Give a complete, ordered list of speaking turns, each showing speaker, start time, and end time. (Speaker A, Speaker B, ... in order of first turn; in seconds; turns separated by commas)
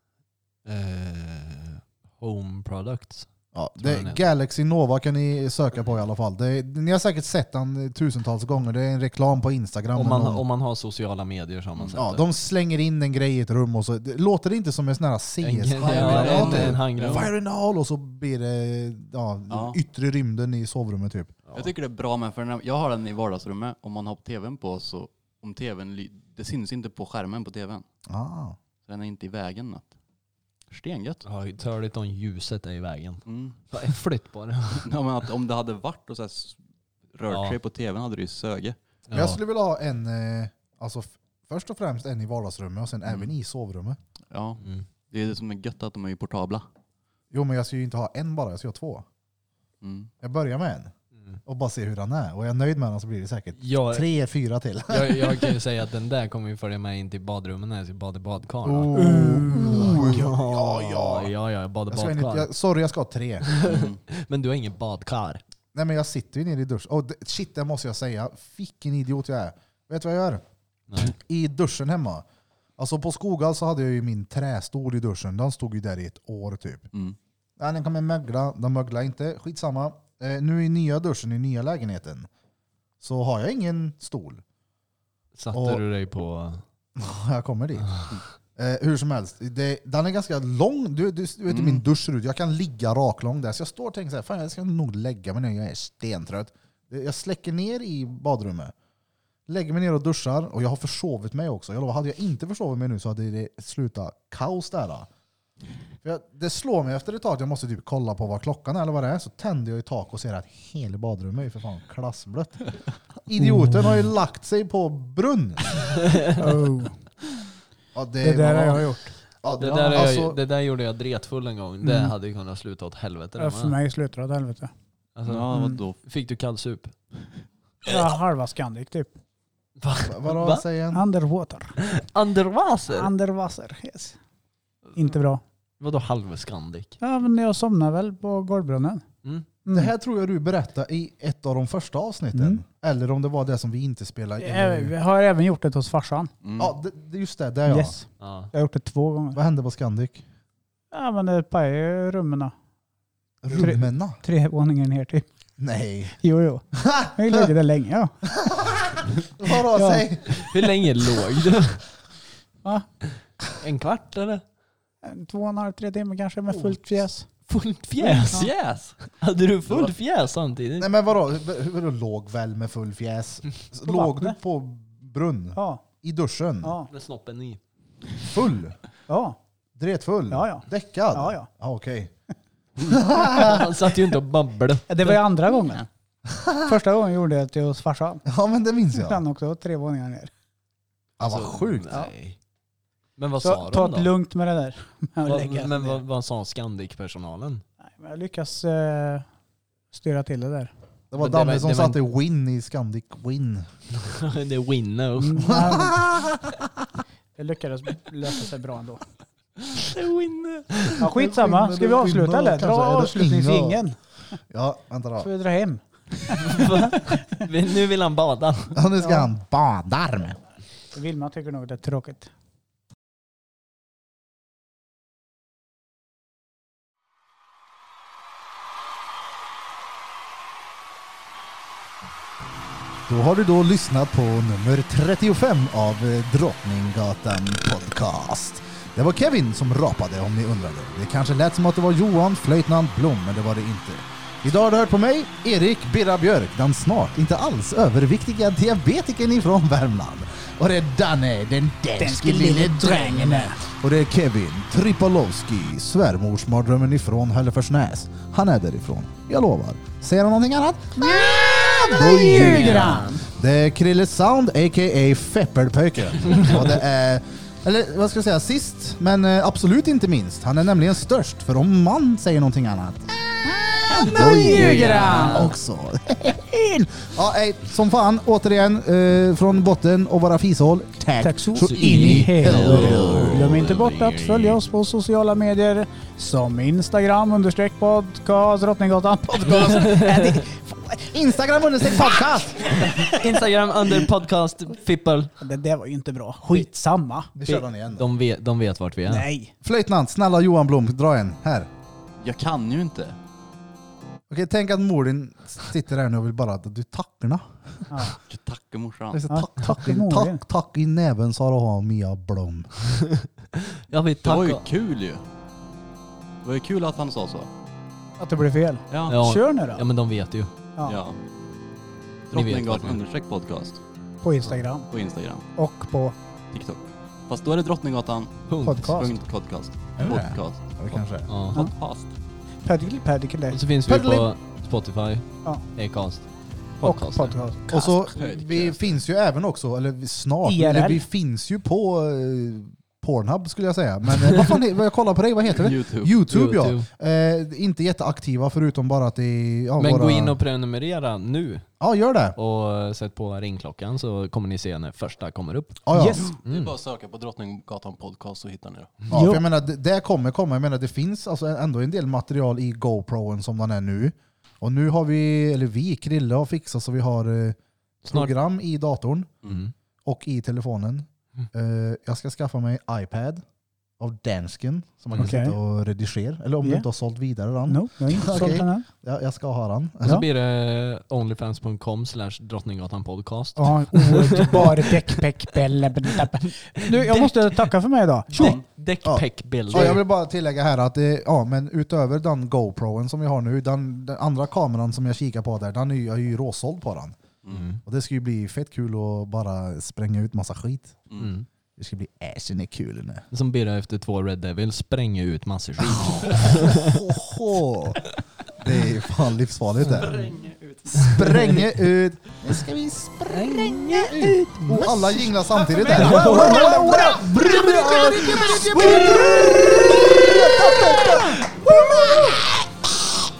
Speaker A: 0.7-4.2, Speaker B: 3.5-10.4, Speaker A: 9.9-12.2, Speaker B: 11.9-21.4, Speaker A: 15.4-17.3, Speaker C: 15.8-17.3, Speaker C: 19.5-19.8, Speaker C: 21.5-27.9, Speaker B: 28.1-28.6, Speaker C: 28.9-29.9, Speaker C: 30.7-31.3, Speaker A: 31.2-34.9, Speaker C: 33.3-33.9, Speaker C: 34.7-36.6, Speaker C: 37.1-38.8, Speaker A: 37.3-37.6, Speaker A: 39.1-39.4, Speaker B: 39.1-44.0, Speaker C: 43.1-43.3, Speaker C: 44.3-46.7, Speaker B: 47.3-49.1, Speaker C: 49.8-50.1, Speaker B: 50.2-50.9, Speaker B: 51.5-55.6, Speaker A: 53.6-54.1, Speaker A: 54.9-62.5, Speaker B: 58.6-61.3, Speaker D: 58.9-60.2, Speaker B: 61.9-63.7, Speaker A: 63.4-65.4, Speaker C: 63.6-64.0, Speaker B: 65.7-70.4, Speaker A: 70.9-71.1, Speaker B: 71.0-72.2, Speaker B: 72.8-76.9, Speaker B: 77.6-82.3, Speaker B: 83.0-84.4, Speaker A: 85.4-86.6, Speaker B: 85.5-85.8, Speaker B: 87.0-88.0, Speaker B: 88.6-98.7, Speaker C: 91.5-91.8, Speaker B: 99.5-105.1, Speaker B: 106.0-112.7, Speaker B: 113.2-115.8, Speaker D: 113.4-114.1, Speaker A: 116.1-116.3, Speaker D: 116.4-117.0, Speaker B: 118.0-118.9, Speaker D: 118.2-119.2, Speaker B: 119.4-120.4, Speaker A: 119.5-123.8, Speaker D: 121.8-122.1, Speaker D: 123.4-124.7, Speaker A: 125.2-126.9, Speaker C: 125.2-126.0, Speaker D: 125.5-125.8, Speaker D: 127.8-129.1, Speaker A: 129.8-130.6, Speaker B: 130.0-131.0, Speaker D: 130.9-131.8, Speaker A: 131.8-133.1, Speaker D: 132.9-134.2, Speaker D: 134.9-135.4, Speaker A: 135.8-137.0, Speaker D: 137.0-139.1, Speaker D: 139.7-139.9, Speaker B: 139.7-144.9, Speaker D: 142.3-142.6, Speaker D: 144.4-146.3, Speaker C: 146.4-146.8, Speaker B: 146.6-148.0, Speaker D: 147.7-149.4, Speaker A: 148.2-148.5, Speaker B: 149.3-150.2, Speaker D: 150.9-152.5, Speaker B: 153.4-154.2, Speaker D: 153.5-155.2, Speaker B: 155.6-156.2, Speaker D: 156.2-158.2, Speaker B: 156.7-157.5, Speaker B: 158.3-160.7, Speaker D: 159.7-160.1, Speaker A: 160.3-161.8, Speaker A: 163.6-164.4, Speaker D: 165.0-167.3, Speaker A: 166.5-166.8, Speaker A: 167.5-170.9, Speaker C: 168.0-169.1, Speaker C: 169.7-169.9, Speaker B: 170.8-176.7, Speaker D: 173.9-174.4, Speaker D: 175.6-175.8, Speaker D: 176.6-176.9, Speaker A: 176.9-177.6, Speaker B: 178.2-178.8, Speaker D: 179.1-179.4, Speaker B: 179.8-182.1, Speaker D: 180.3-181.5, Speaker B: 182.8-183.7, Speaker A: 183.2-185.2, Speaker D: 184.9-185.9, Speaker B: 186.3-186.7, Speaker D: 186.6-188.2, Speaker B: 188.3-189.2, Speaker D: 188.9-190.3, Speaker B: 191.2-191.9, Speaker A: 191.2-192.4, Speaker A: 193.2-194.1, Speaker D: 193.4-196.0, Speaker A: 195.2-197.6, Speaker D: 197.8-199.3, Speaker D: 199.9-200.7, Speaker B: 201.1-203.7, Speaker A: 201.2-202.0, Speaker A: 204.0-205.8, Speaker D: 205.2-206.0, Speaker B: 205.4-206.7, Speaker D: 207.4-209.0, Speaker A: 209.7-211.1, Speaker D: 211.0-214.0, Speaker B: 211.0-213.8, Speaker B: 214.5-215.3, Speaker D: 215.2-217.4, Speaker A: 216.4-218.8, Speaker B: 218.8-220.4, Speaker D: 219.0-219.3, Speaker D: 220.9-222.3, Speaker B: 233.1-283.4, Speaker D: 252.0-253.6, Speaker D: 261.0-263.2, Speaker A: 262.2-263.2, Speaker D: 273.9-275.5, Speaker A: 274.2-275.5, Speaker D: 281.2-291.1, Speaker A: 281.6-284.6, Speaker C: 282.5-283.4, Speaker A: 289.6-290.4, Speaker B: 291.1-293.1, Speaker D: 291.8-293.2, Speaker A: 292.8-295.3, Speaker D: 295.4-297.4, Speaker B: 297.4-298.1, Speaker A: 297.5-299.3, Speaker D: 299.1-299.5, Speaker B: 299.6-301.7, Speaker C: 302.2-303.2, Speaker B: 304.3-307.9, Speaker D: 307.9-308.1, Speaker C: 308.2-309.2, Speaker B: 309.1-312.7, Speaker D: 309.3-310.4, Speaker A: 313.1-314.6, Speaker C: 314.2-315.2, Speaker C: 316.4-317.5, Speaker D: 318.2-319.8, Speaker C: 318.9-319.2, Speaker A: 319.1-320.5, Speaker C: 320.9-321.2, Speaker C: 322.3-323.8, Speaker A: 322.3-323.0, Speaker D: 324.2-324.9, Speaker C: 324.9-325.5, Speaker D: 325.6-326.2, Speaker C: 326.5-332.1, Speaker A: 328.5-329.1, Speaker D: 328.6-329.2, Speaker B: 330.0-331.3, Speaker A: 331.3-331.6, Speaker D: 332.6-333.6, Speaker A: 333.5-336.3, Speaker B: 333.9-334.3, Speaker A: 336.8-337.4, Speaker D: 336.8-338.1, Speaker B: 337.7-350.4, Speaker C: 338.1-339.0, Speaker D: 340.4-341.0, Speaker A: 344.2-344.6, Speaker C: 345.5-346.2, Speaker A: 346.3-346.9, Speaker A: 349.8-351.7, Speaker B: 351.8-352.4, Speaker A: 352.4-355.8, Speaker B: 355.9-356.3, Speaker D: 355.9-356.3, Speaker E: 356.4-359.1, Speaker A: 356.5-356.7, Speaker B: 359.1-369.3, Speaker D: 359.1-359.4, Speaker A: 368.1-368.3, Speaker A: 369.5-369.7, Speaker B: 370.1-373.4, Speaker B: 374.0-380.2, Speaker D: 375.2-375.6, Speaker D: 377.7-378.9, Speaker A: 380.0-385.2, Speaker D: 383.6-388.6, Speaker A: 386.7-387.7, Speaker A: 388.3-390.0, Speaker B: 389.0-397.2, Speaker A: 397.5-397.8, Speaker B: 397.9-401.0, Speaker A: 401.2-401.5, Speaker B: 401.8-403.2, Speaker A: 403.3-407.1, Speaker B: 405.9-408.0, Speaker B: 408.6-410.2, Speaker A: 409.8-410.1, Speaker E: 410.0-411.1, Speaker C: 410.2-410.5, Speaker B: 411.0-422.5, Speaker A: 411.0-411.7, Speaker A: 413.3-415.3, Speaker D: 415.5-417.4, Speaker A: 415.9-422.4, Speaker D: 418.8-419.7